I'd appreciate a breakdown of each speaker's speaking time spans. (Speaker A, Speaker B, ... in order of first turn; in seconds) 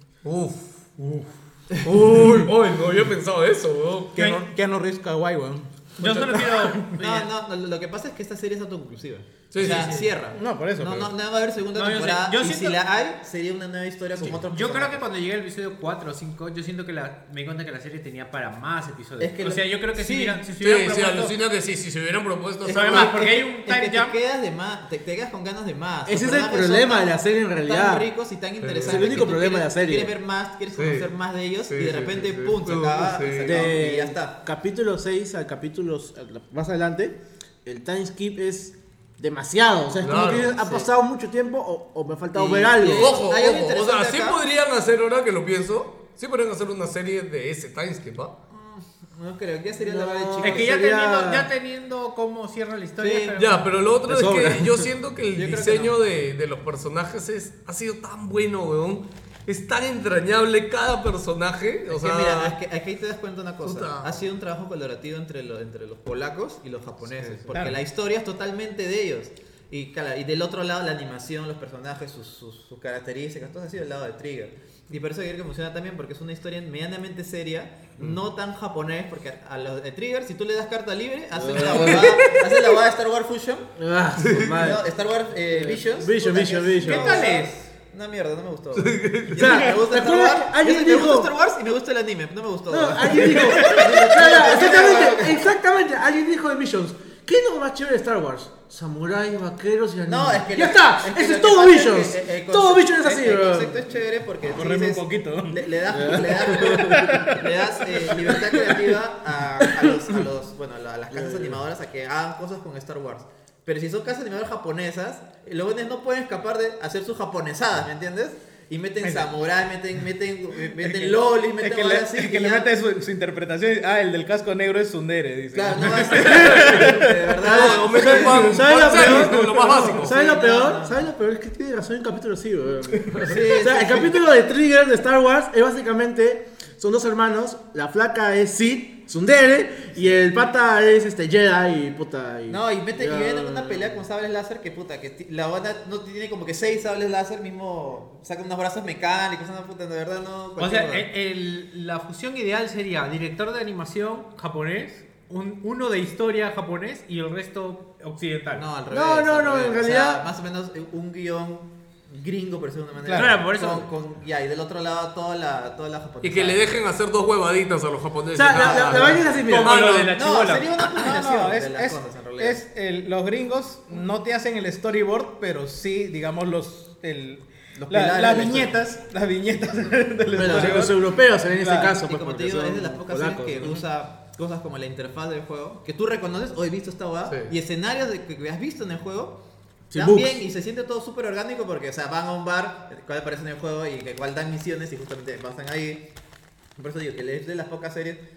Speaker A: 0.2-4.4, 9.5-10.0, 20.6-23.1, 28.6-29.3, 30.7-31.1, 31.7-33.7, 40.0-40.8, 42.8-48.3, 53.3-62.6, 63.6-64.3, 81.5-82.5, 84.2-84.6, 88.7-89.7, 126.3-126.8, 127.4-130.2, 166.2-170.1
Speaker B: 4.1-7.0, 10.3-11.1, 67.5-67.8, 104.5-108.5, 119.0-119.3, 120.5-127.5, 129.3-129.9, 163.0-163.3, 170.9-182.0
Speaker C: 6.0-7.3, 9.6-10.0, 11.7-12.8, 14.2-21.3, 22.7-24.1, 50.4-53.6, 86.8-87.5, 150.6-158.6, 163.1-163.9, 169.4-170.7
Speaker D: 7.0-15.0, 19.2-20.4, 22.6-34.4, 42.3-44.4, 48.5-50.9, 53.0-53.4, 55.3-56.0, 61.9-83.7, 84.5-95.4, 100.0-122.7, 125.5-131.1, 133.2-134.3, 142.5-151.1, 158.5-166.7, 168.5-169.3, 170.1-172.6, 177.8-178.7, 182.0-189.4, 189.9-196.1, 196.8-198.2
Speaker E: 26.1-28.1, 28.8-30.1, 33.4-43.1, 49.8-51.5, 54.1-54.9, 81.3-82.2, 83.8-84.8, 85.5-87.3, 89.3-91.3, 92.7-103.8, 105.9-107.1, 111.1-111.6, 127.9-144.0, 158.9-160.2, 168.3-169.8, 180.3-183.8, 189.9-190.4